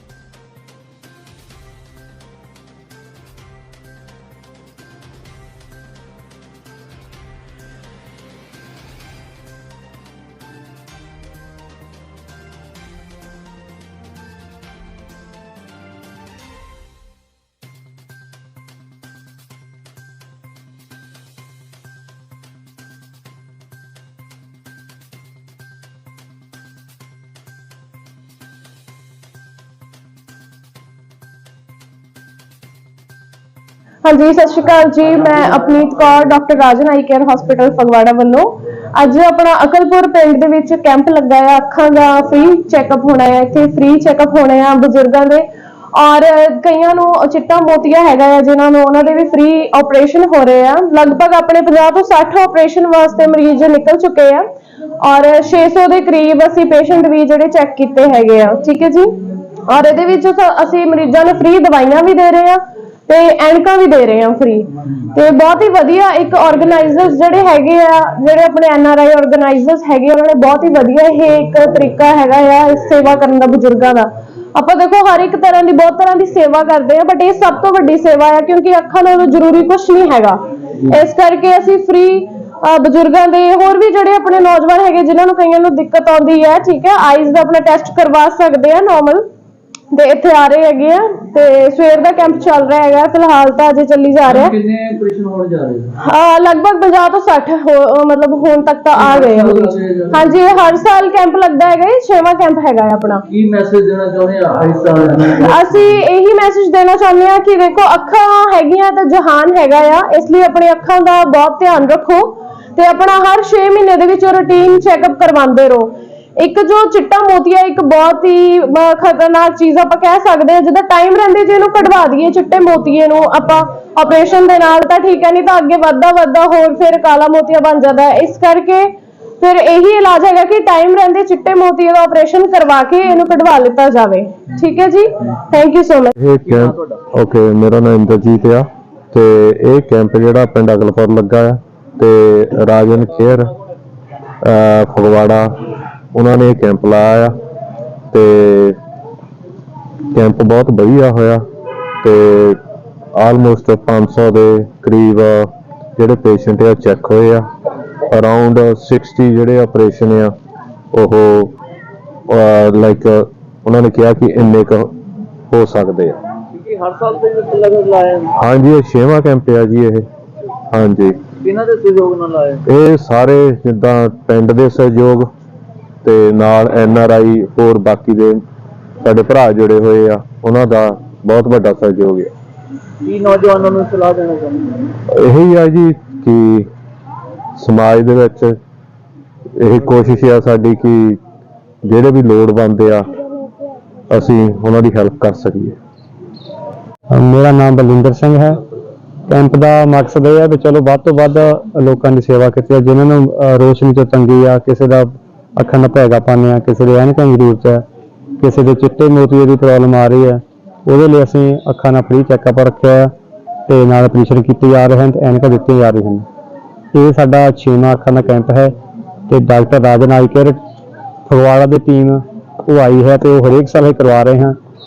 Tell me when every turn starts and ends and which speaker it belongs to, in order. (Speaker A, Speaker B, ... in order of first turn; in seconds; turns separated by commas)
Speaker A: 34.0-54.5, Speaker A: 55.0-89.3, Speaker A: 89.9-94.5, Speaker B: 94.3-95.9, Speaker A: 96.0-103.2, Speaker B: 99.1-100.2, Speaker B: 103.3-105.7, Speaker A: 105.3-136.1, Speaker C: 136.2-143.5, Speaker C: 144.4-145.5, Speaker C: 146.1-147.4, Speaker C: 148.1-148.8, Speaker C: 150.1-151.4, Speaker C: 152.0-152.6, Speaker C: 153.2-157.5, Speaker C: 158.1-160.3, Speaker C: 160.9-161.6, Speaker C: 162.3-164.9, Speaker C: 165.5-166.2, Speaker B: 166.6-168.3, Speaker C: 168.4-170.1, Speaker C: 170.7-171.2, Speaker B: 171.4-172.6, Speaker C: 172.7-175.3, Speaker C: 176.0-178.4, Speaker C: 179.0-182.3, Speaker B: 183.0-184.9, Speaker C: 185.1-186.7, Speaker C: 187.6-188.6, Speaker C: 189.6-191.2, Speaker C: 191.8-193.1, Speaker C: 194.1-195.8, Speaker D: 197.1-198.6, Speaker D: 199.3-207.9, Speaker D: 208.4-213.1, Speaker D: 213.7-216.3, Speaker D: 216.9-218.7, Speaker D: 219.3-220.6, Speaker D: 221.3-224.6